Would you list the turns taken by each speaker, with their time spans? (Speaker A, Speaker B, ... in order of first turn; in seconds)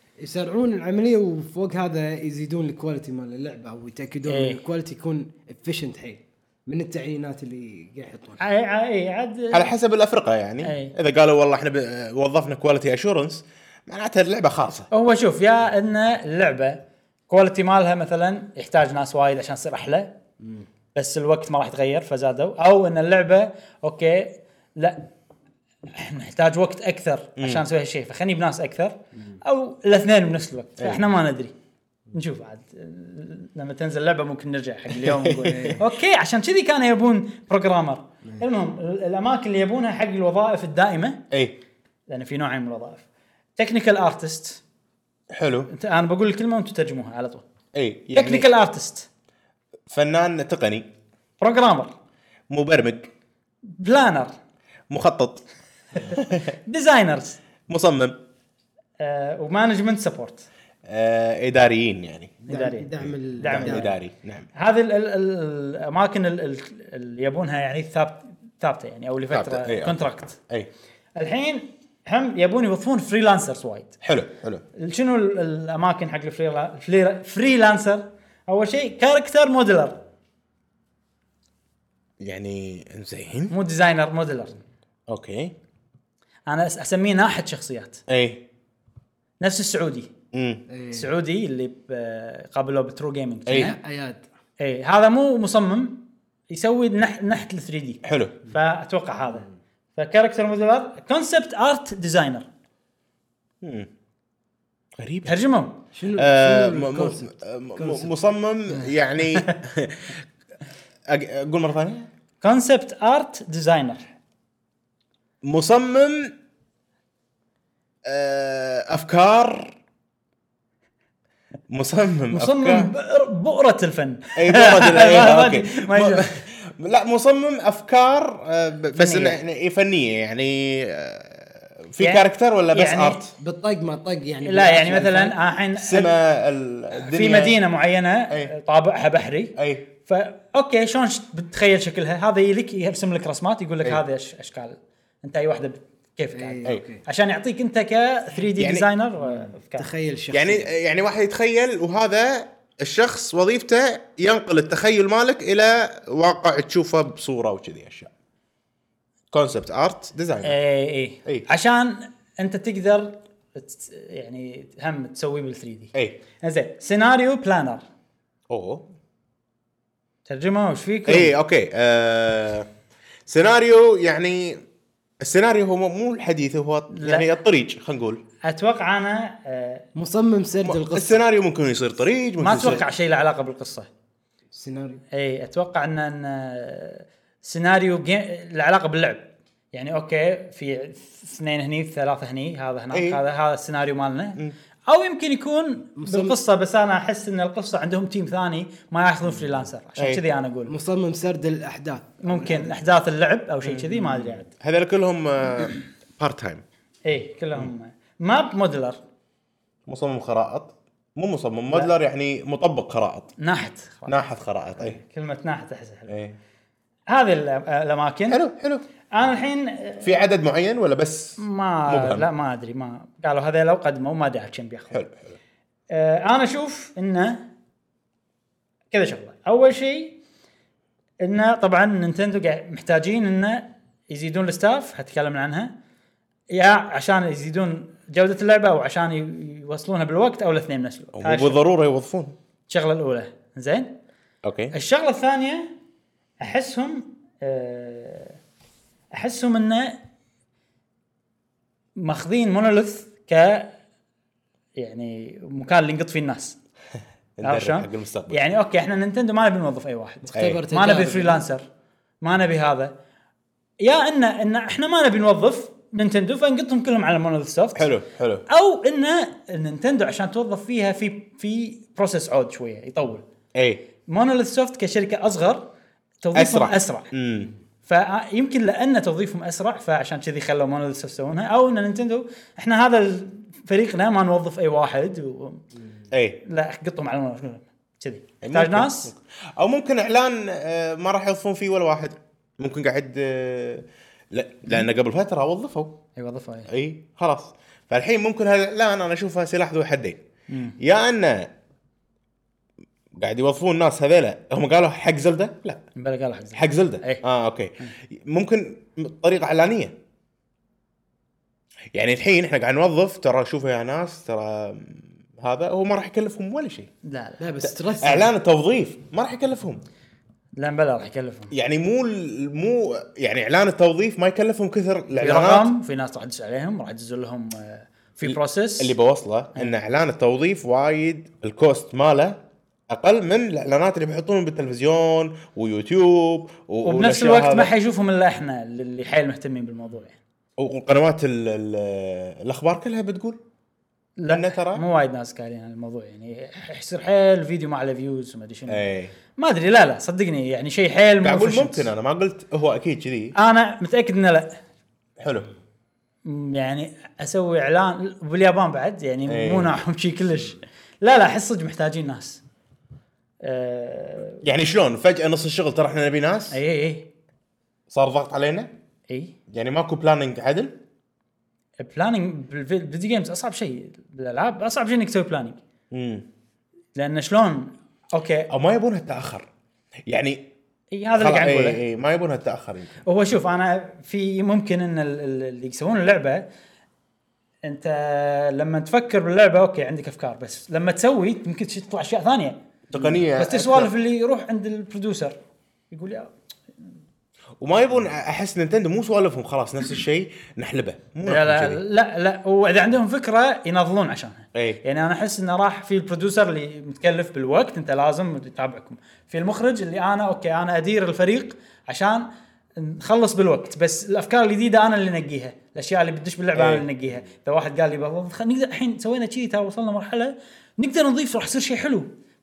Speaker A: 0.2-8.4, 35.5-35.8, 62.5-63.9, 90.7-91.1, 93.6-94.2, 105.9-108.1, 133.4-135.4, 146.4-147.0, 149.2-150.7, 179.9-181.2, 184.5-185.0, 195.9-196.3, 200.7-202.8, 260.3-261.4, 317.4-318.3
Speaker B: 4.3-4.6, 8.4-9.7, 10.6-10.9, 14.9-20.1, 20.9-25.0, 25.9-31.5, 32.1-41.2, 42.1-43.0, 43.6-44.6, 45.7-47.4, 48.1-49.1, 51.4-51.9, 53.7-54.3, 56.0-57.4, 59.0-60.5, 62.5-63.9, 64.5-70.4, 71.2-73.9, 74.7-80.0, 83.5-84.6, 86.5-88.0, 89.4-90.1, 90.9-93.8, 94.6-102.5, 105.2-105.8, 112.4-114.1, 122.3-126.3, 128.9-129.4, 132.0-133.3, 134.4-136.1, 136.9-149.9, 160.4-167.8, 170.3-171.3, 176.9-177.3, 178.4-179.8, 182.4-183.9, 185.1-200.7, 202.2-204.5, 207.1-209.0, 213.4-214.1, 214.8-216.1, 217.1-218.4, 219.1-220.1, 221.4-225.0, 225.9-227.4, 228.9-230.2, 231.2-235.7, 236.5-241.6, 242.7-243.9, 244.7-245.7, 246.4-248.4, 249.1-250.0, 252.0-253.7, 254.8-256.6, 257.4-261.6, 262.2-262.9, 263.8-267.9, 268.5-273.2, 274.1-275.7, 276.2-277.1, 277.9-285.6, 286.4-289.1, 296.2-296.7, 300.5-300.8, 305.9-307.2, 317.0-317.4, 320.6-321.5, 325.1-328.9, 336.8-340.2, 344.2-348.8, 349.4-351.9, 353.3-354.5, 356.2-362.4, 363.4-364.4, 366.5-367.1, 369.1-369.3, 371.8-375.6, 376.9-378.5, 380.9-381.8, 383.0-386.4, 387.6-395.4, 395.9-396.3, 401.2-422.1
Speaker C: 9.5-14.9, 27.4-27.6, 30.8-31.1, 34.9-35.8, 41.3-41.6, 45.3-45.7, 47.7-48.5, 49.9-50.8, 52.5-53.1, 54.9-55.4, 56.0-56.5, 57.7-58.2, 60.9-62.4, 63.0-64.5, 69.3-70.0, 74.0-74.6, 82.2-83.5, 85.1-85.5, 88.1-88.4, 90.3-90.6, 93.5-93.7, 98.0-98.4, 103.6-103.9, 105.0-105.3, 106.1-110.2, 111.1-112.1, 115.4-116.3, 118.0-119.8, 121.7-122.9, 124.4-133.3, 135.7-137.6, 139.6-139.9, 148.6-148.9, 150.3-158.1, 159.3-160.6, 165.9-166.2, 168.5-168.8, 171.1-172.7, 173.3-174.6, 175.2-178.2, 180.6-182.8, 192.9-193.2, 203.6-206.6, 209.9-213.3, 214.1-215.0, 216.1-216.4, 218.3-218.8, 220.0-222.2, 224.9-225.2, 241.1-242.3, 244.4-244.7, 257.4-258.4, 260.4-260.6, 267.7-268.4, 273.5-273.8, 276.3-277.5, 286.1-286.4, 288.4-296.0, 296.7-300.2, 300.8-301.5, 303.2-305.8, 306.5-309.9, 311.9-316.9, 317.6-319.8, 321.5-325.7, 328.3-337.7, 340.6-343.4, 344.3-344.8, 348.7-349.1, 351.2-353.3, 355.2-355.5, 359.3-359.8, 364.4-366.6, 367.9-368.7, 369.5-370.8, 375.9-376.2, 378.5-379.5, 380.1-380.5, 381.2-383.0, 392.9-393.9, 397.6-401.8, 404.5-404.8, 416.5-416.9